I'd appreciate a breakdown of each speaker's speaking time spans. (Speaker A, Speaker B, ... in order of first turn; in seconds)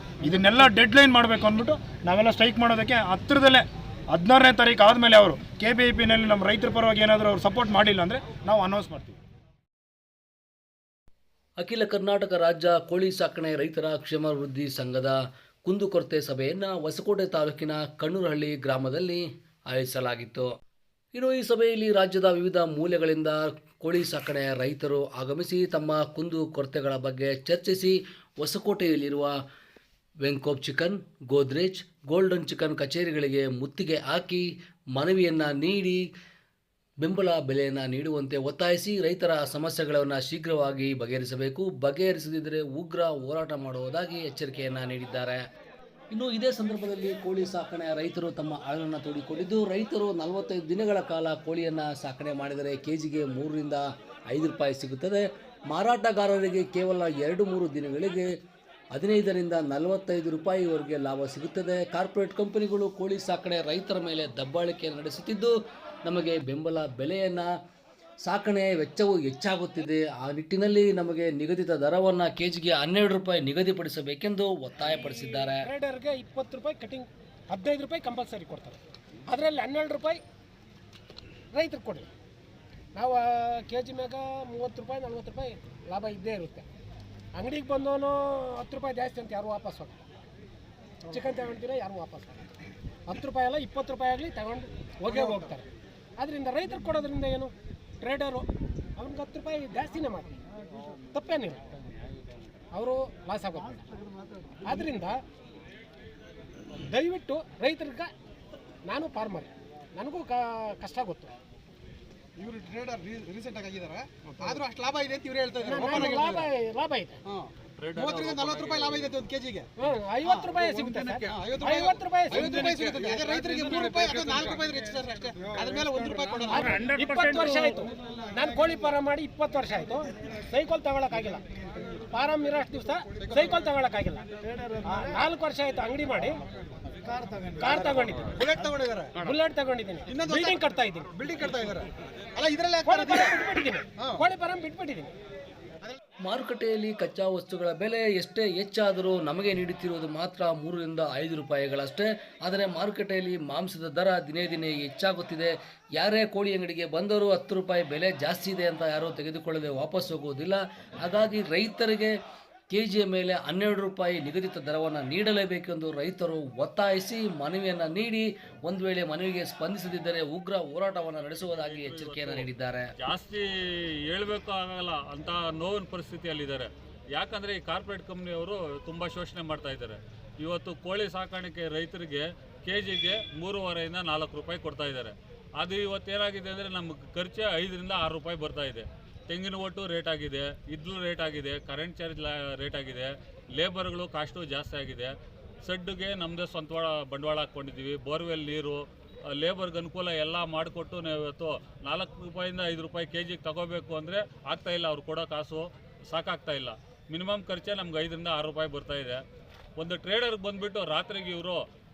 Speaker A: 0.2-9.2, 126.6-127.7
Speaker B: 11.6-20.5, 21.1-29.4, 30.2-36.0, 37.0-45.4, 46.1-58.3, 58.9-65.5, 66.0-67.5, 68.2-75.7, 146.2-162.1, 162.7-172.9
Speaker C: 74.8-80.2, 81.5-82.1, 82.9-86.7, 87.3-90.0, 91.0-92.4, 93.1-95.7, 96.2-100.4, 101.1-101.7, 102.7-103.8, 104.6-105.2, 106.8-108.1, 108.8-111.3, 115.6-117.2, 119.8-122.7, 126.5-131.4, 132.1-134.2, 134.9-136.4, 137.6-138.4, 139.2-141.1, 142.8-145.1
Speaker D: 95.1-95.4, 112.3-116.5, 117.2-119.7, 120.2-126.9, 133.2-133.7, 134.8-135.1, 137.6-139.3, 140.1-143.4, 144.0-144.2
Speaker E: 118.0-118.3, 171.5-172.5, 173.0-173.4, 174.1-195.1, 195.6-209.2, 209.8-211.6